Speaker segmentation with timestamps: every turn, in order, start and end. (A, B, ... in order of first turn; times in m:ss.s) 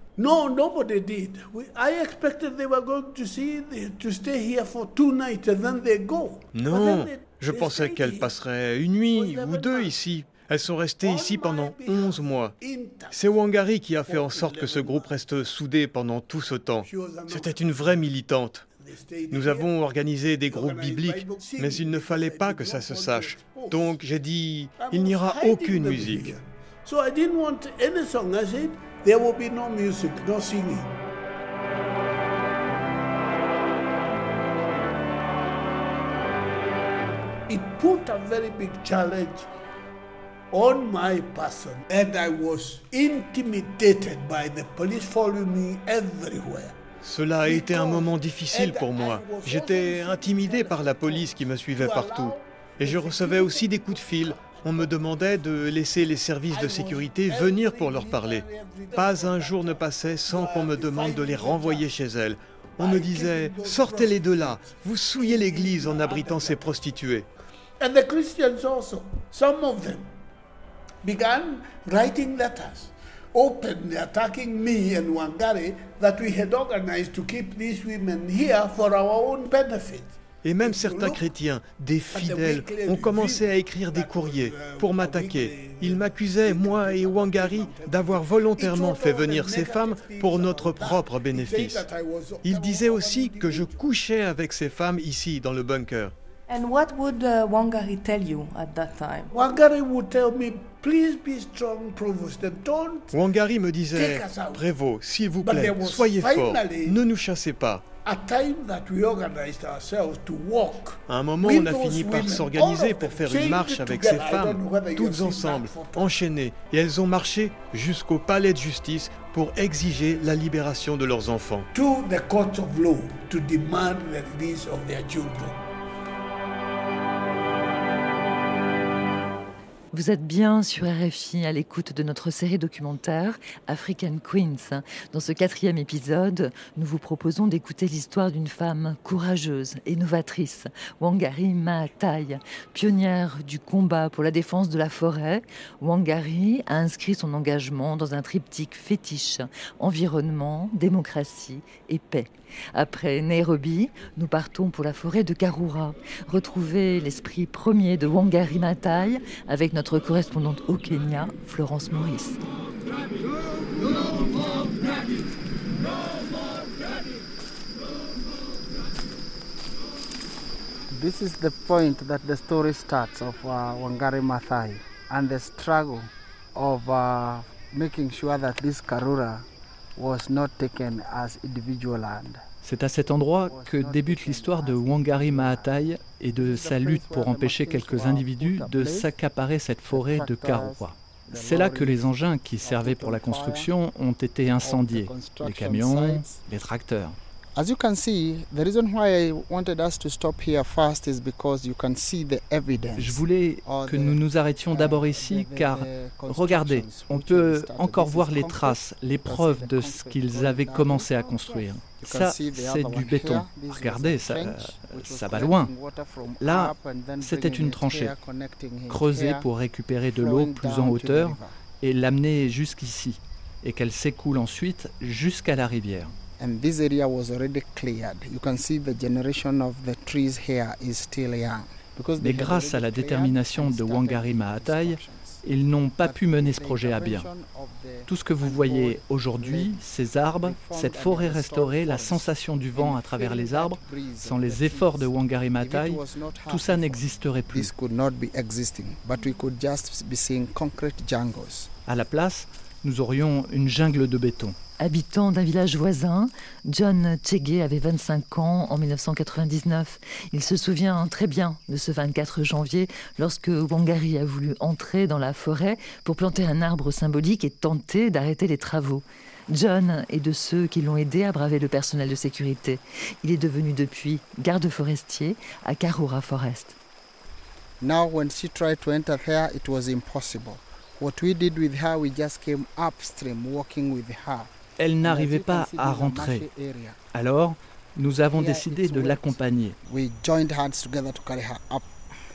0:00.2-0:08.4 A
0:06.5-0:12.5 B
0:09.1-0:10.0 A
0:11.0-0:15.1 A
0:13.1-0:18.6 B
0:16.8-0:18.1 A
0:18.7-0:19.7 A
0:19.3-0:26.3 B
0:20.5-0:24.0 A
0:24.7-0:30.9 A
0:37.5-0:39.4 A
0:40.5-0:46.7 A
0:47.0-1:07.2 B
0:47.4-0:55.2 A
0:56.5-1:01.9 A
1:02.8-1:06.8 A
1:07.8-1:10.0 A
1:11.0-1:21.3 A
1:20.4-1:31.8 B
1:22.1-1:33.8 A
1:32.4-1:36.1 B
1:36.5-1:39.3 C
1:39.3-1:43.1 A
1:43.1-1:47.8 B
1:43.9-1:44.6 A
1:45.4-1:47.0 A
1:48.0-1:56.1 A
1:51.1-2:01.7 B
2:01.7-2:05.6 A
2:09.9-2:42.4 D
2:50.9-3:02.4 E
3:02.6-3:17.2 F
3:03.4-3:09.1 E
3:09.9-3:13.7 E
3:14.4-3:16.4 E
3:17.6-3:39.5 E
3:23.0-3:35.7 F
3:36.4-3:38.1 F
3:38.9-3:46.2 F
3:40.1-3:41.5 E
3:46.4-3:55.4 E
3:52.2-3:57.3 F
3:56.0-3:59.8 E
3:58.1-4:07.7 F
4:00.4-4:11.7 E
4:11.9-4:14.6 F
4:14.8-4:36.8 D
4:37.8-4:44.5 E
4:44.8-4:46.4 F
4:45.0-4:47.0 E
4:47.1-4:49.8 F
4:48.3-4:51.8 E